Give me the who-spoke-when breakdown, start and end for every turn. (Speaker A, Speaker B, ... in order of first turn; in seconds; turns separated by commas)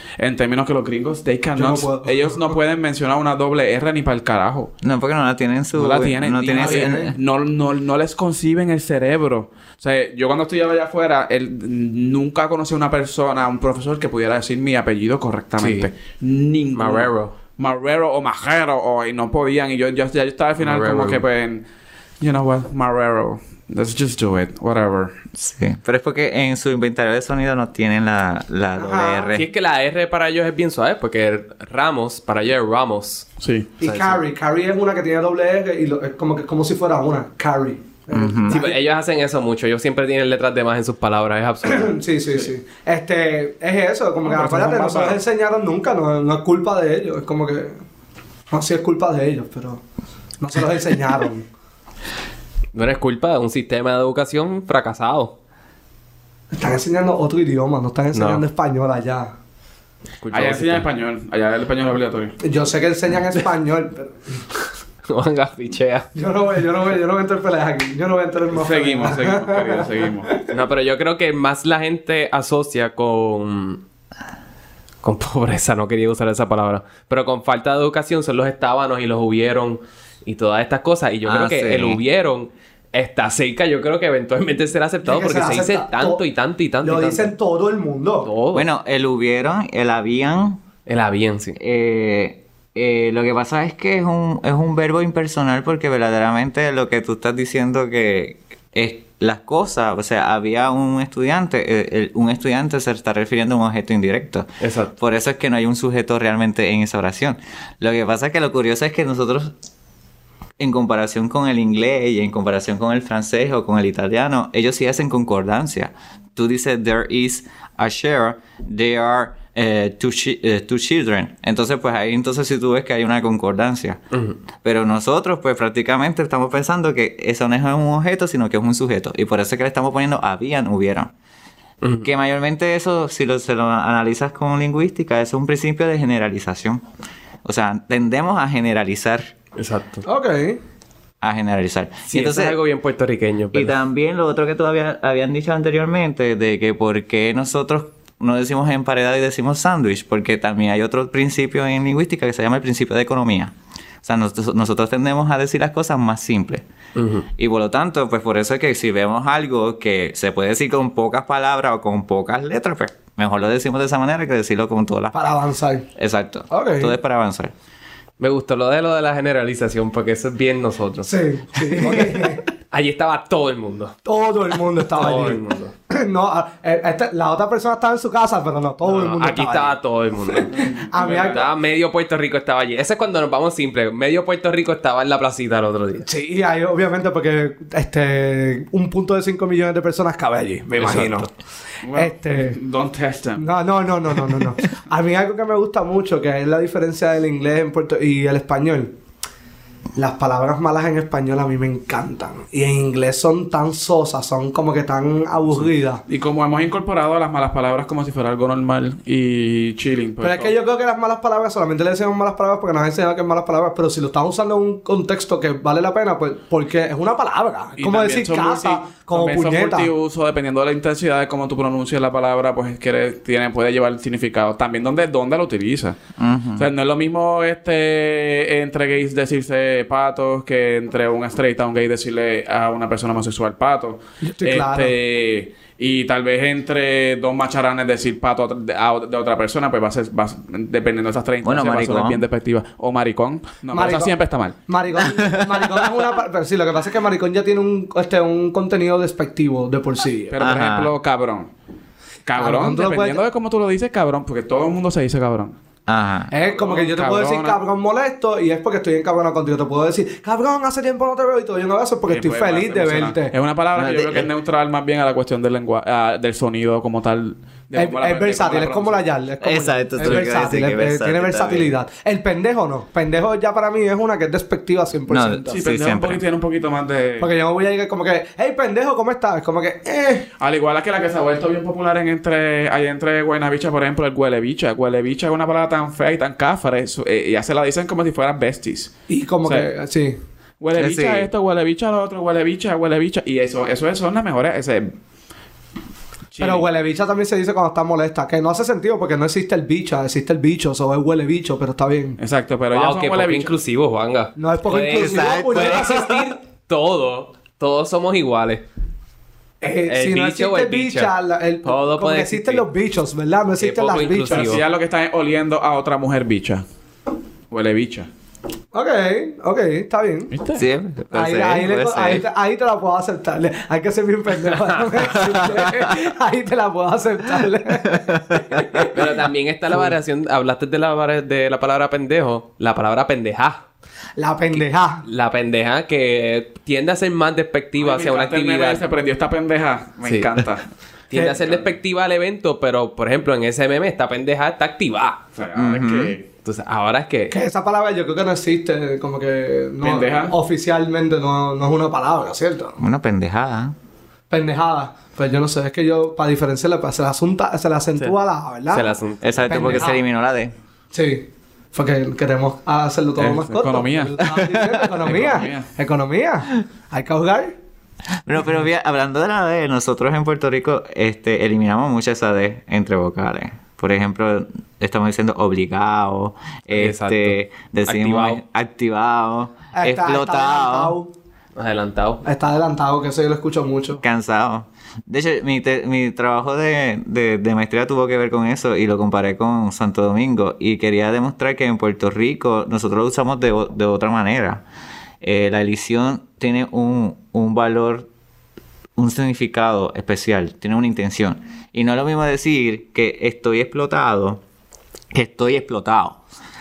Speaker A: 0.2-4.7, Speaker B: 1.6-2.6, Speaker C: 4.8-7.2, Speaker A: 5.8-21.6, Speaker B: 6.5-7.1, Speaker D: 15.6-15.9, Speaker D: 16.8-17.4, Speaker D: 20.6-21.2, Speaker A: 22.2-25.1, Speaker C: 25.4-29.5, Speaker B: 28.8-29.3, Speaker D: 29.3-33.3, Speaker A: 33.4-33.7, Speaker B: 33.8-38.8, Speaker D: 33.8-34.2, Speaker C: 38.1-38.6, Speaker D: 38.5-42.0, Speaker B: 41.6-47.8, Speaker A: 44.2-45.2, Speaker B: 48.5-49.8, Speaker B: 50.4-51.5, Speaker D: 52.7-55.4, Speaker B: 56.5-59.3, Speaker D: 58.1-58.4, Speaker D: 60.2-60.9, Speaker A: 60.3-62.4, Speaker B: 62.4-64.4, Speaker D: 65.1-66.1, Speaker B: 66.2-70.5, Speaker A: 68.5-70.3, Speaker D: 70.5-73.8, Speaker D: 75.0-87.3, Speaker C: 81.2-82.0, Speaker B: 85.0-86.2, Speaker B: 86.8-88.3, Speaker D: 88.2-88.7, Speaker C: 88.5-90.6, Speaker D: 90.9-91.6, Speaker C: 91.6-104.5, Speaker D: 104.6-105.0, Speaker C: 105.0-109.5, Speaker C: 110.6-124.0, Speaker D: 124.1-124.4, Speaker C: 124.6-131.1, Speaker D: 131.8-132.1, Speaker C: 132.0-136.8, Speaker C: 137.4-139.3, Speaker D: 139.6-140.1, Speaker B: 140.1-140.6, Speaker C: 141.2-142.6, Speaker D: 142.1-143.8, Speaker C: 143.5-156.7, Speaker D: 157.0-157.3, Speaker C: 157.4-165.2, Speaker B: 165.1-165.9, Speaker C: 166.0-167.5, Speaker B: 166.5-166.9, Speaker D: 168.2-174.0, Speaker B: 171.1-172.4, Speaker B: 174.1-181.5, Speaker D: 174.9-175.7, Speaker D: 178.8-180.7, Speaker A: 180.5-181.5, Speaker D: 181.2-186.1, Speaker B: 186.1-191.3, Speaker D: 190.8-191.2, Speaker A: 191.8-193.4, Speaker B: 191.9-192.6, Speaker B: 193.4-199.0, Speaker B: 200.0-206.0, Speaker A: 205.6-210.6, Speaker B: 210.2-219.9, Speaker A: 217.8-226.0, Speaker C: 226.2-226.7, Speaker A: 226.6-244.6, Speaker B: 234.2-234.9, Speaker C: 241.4-242.2, Speaker B: 243.7-244.1, Speaker B: 244.7-250.3, Speaker C: 245.0-245.8, Speaker A: 250.3-251.5, Speaker C: 250.4-250.9, Speaker A: 252.3-255.6, Speaker B: 252.4-253.2, Speaker C: 255.9-256.3, Speaker B: 256.3-263.3, Speaker A: 256.4-257.6, Speaker A: 262.1-269.1, Speaker C: 263.8-264.3, Speaker B: 267.7-275.6, Speaker C: 269.4-271.8, Speaker C: 275.1-276.2, Speaker A: 275.5-277.3, Speaker B: 277.2-280.3, Speaker A: 280.4-288.9, Speaker B: 289.1-290.2, Speaker A: 290.6-294.9, Speaker C: 290.8-291.3, Speaker A: 296.3-296.7, Speaker B: 296.4-302.2, Speaker A: 302.2-303.6, Speaker D: 302.7-308.6, Speaker B: 304.4-306.3, Speaker C: 304.9-306.3, Speaker B: 309.6-314.6, Speaker D: 309.9-311.1, Speaker D: 311.6-312.7, Speaker D: 313.6-314.6, Speaker A: 314.3-316.6, Speaker A: 317.5-318.1, Speaker B: 318.7-320.3, Speaker A: 320.3-320.6, Speaker C: 320.5-322.3, Speaker B: 321.1-329.3, Speaker C: 325.2-325.9, Speaker C: 327.9-328.6, Speaker D: 328.9-333.6, Speaker B: 334.2-335.0, Speaker D: 334.5-338.8, Speaker A: 337.8-340.7, Speaker D: 340.0-340.3, Speaker D: 341.1-345.2, Speaker B: 341.1-341.4, Speaker A: 345.4-346.2, Speaker C: 345.6-346.2, Speaker D: 346.4-347.3, Speaker B: 347.3-352.8, Speaker A: 349.8-350.3, Speaker C: 352.8-353.7, Speaker B: 354.3-359.0, Speaker D: 358.7-360.0, Speaker C: 359.2-360.5, Speaker B: 359.5-360.0, Speaker B: 360.9-367.5, Speaker A: 363.2-364.2, Speaker C: 364.2-364.9, Speaker A: 365.0-365.7, Speaker C: 368.2-381.0, Speaker D: 376.7-378.4, Speaker B: 379.7-381.1, Speaker D: 381.6-382.2, Speaker B: 382.2-384.0, Speaker C: 384.0-394.6, Speaker C: 395.2-398.1, Speaker C: 399.0-404.4, Speaker C: 405.1-406.2